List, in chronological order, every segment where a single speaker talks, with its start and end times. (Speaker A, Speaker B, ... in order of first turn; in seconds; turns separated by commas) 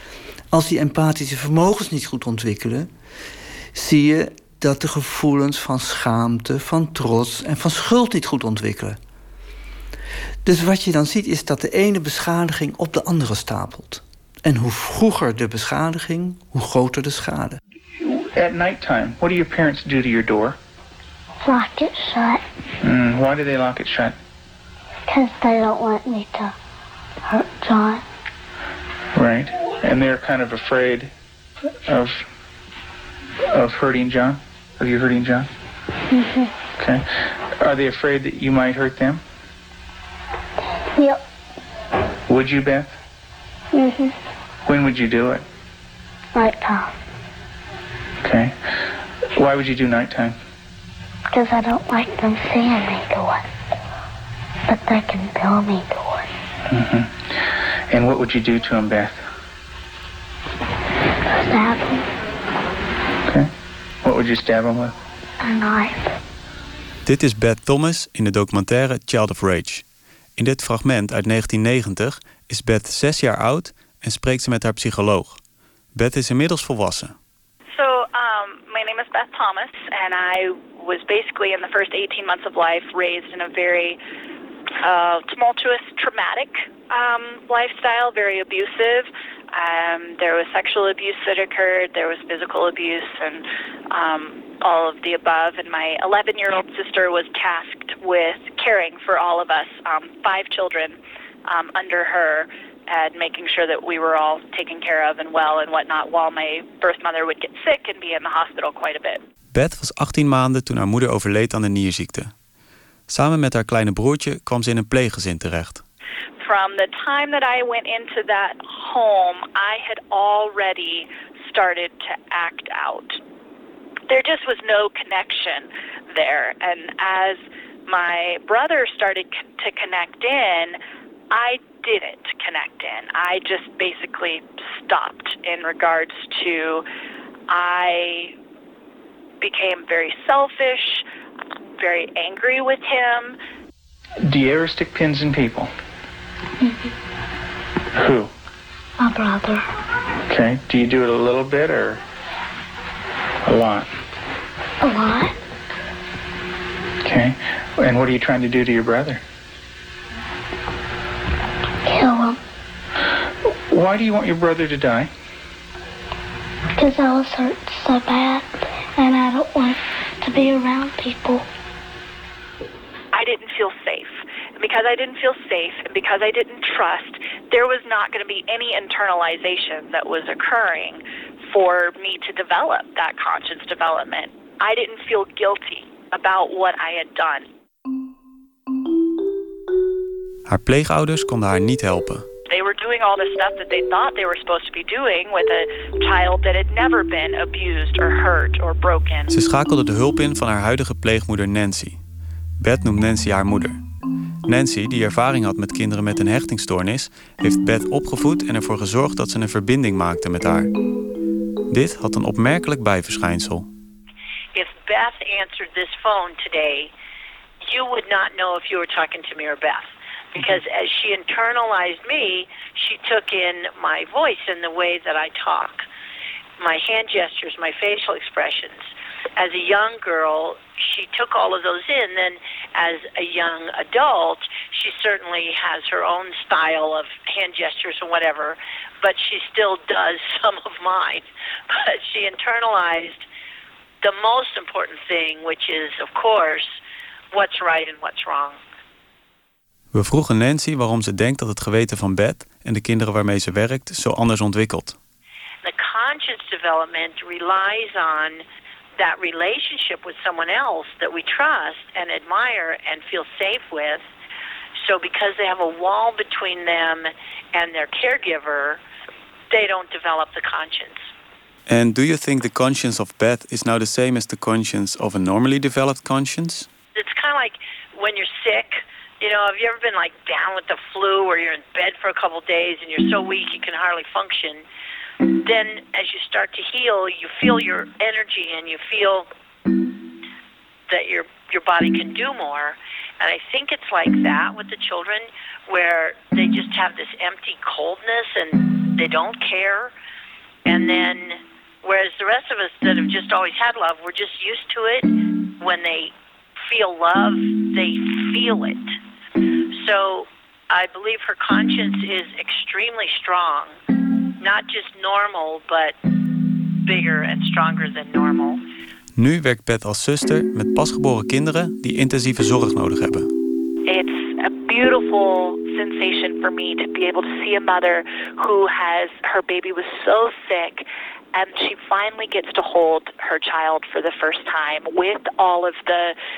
Speaker A: 0.5-2.9, Speaker A: 3.7-9.0, Speaker A: 10.4-17.6, Speaker B: 18.2-20.6, Speaker C: 21.4-22.4, Speaker B: 22.8-24.2, Speaker C: 25.1-26.5, Speaker C: 27.3-28.0, Speaker B: 29.1-31.1, Speaker B: 31.9-32.2, Speaker B: 33.5-35.5, Speaker C: 36.1-36.5, Speaker B: 36.8-37.0, Speaker B: 37.6-39.2, Speaker C: 41.0-41.2, Speaker B: 42.3-42.9, Speaker C: 43.7-44.1, Speaker B: 44.7-45.4, Speaker C: 46.4-46.9, Speaker B: 48.2-48.5, Speaker B: 49.4-50.4, Speaker C: 51.3-53.4, Speaker C: 54.7-56.3, Speaker B: 56.7-59.2, Speaker C: 61.3-62.0, Speaker B: 63.2-63.5, Speaker B: 64.0-65.0, Speaker C: 65.4-66.2, Speaker D: 67.0-69.8, Speaker D: 70.4-75.4, Speaker D: 76.0-77.2, Speaker E: 77.7-84.0, Speaker E: 84.8-109.2, Speaker D: 109.5-112.3, Speaker D: 113.1-115.8, Speaker E: 116.4-123.2, Speaker E: 124.1-130.8, Speaker E: 131.3-136.8, Speaker E: 137.5-138.3, Speaker E: 139.4-141.1, Speaker E: 141.8-143.4, Speaker B: 144.3-145.7, Speaker B: 147.9-148.3, Speaker C: 149.0-149.7, Speaker B: 150.3-152.0, Speaker B: 153.4-153.9, Speaker C: 154.8-155.3, Speaker B: 157.0-159.2, Speaker C: 161.8-162.4, Speaker B: 163.7-165.1, Speaker C: 166.8-171.4, Speaker E: 173.1-187.5, Speaker D: 190.5-192.3, Speaker E: 192.5-199.3, Speaker D: 199.3-202.0, Speaker D: 202.6-203.8, Speaker D: 204.5-210.7, Speaker D: 211.7-213.7, Speaker F: 214.5-216.9, Speaker F: 217.7-225.8, Speaker F: 226.6-243.2, Speaker F: 244.0-246.8, Speaker F: 247.3-248.6, Speaker D: 249.9-255.0, Speaker F: 255.6-258.4, Speaker F: 259.0-264.1, Speaker F: 264.8-268.8, Speaker F: 269.5-271.1, Speaker D: 271.7-276.7, Speaker F: 277.0-284.6, Speaker F: 285.3-289.3, Speaker F: 290.9-299.9, Speaker F: 300.7-306.1, Speaker F: 306.7-308.9, Speaker F: 309.8-313.7, Speaker F: 314.4-316.0, Speaker F: 316.9-318.6, Speaker D: 319.2-323.3, Speaker E: 323.9-336.2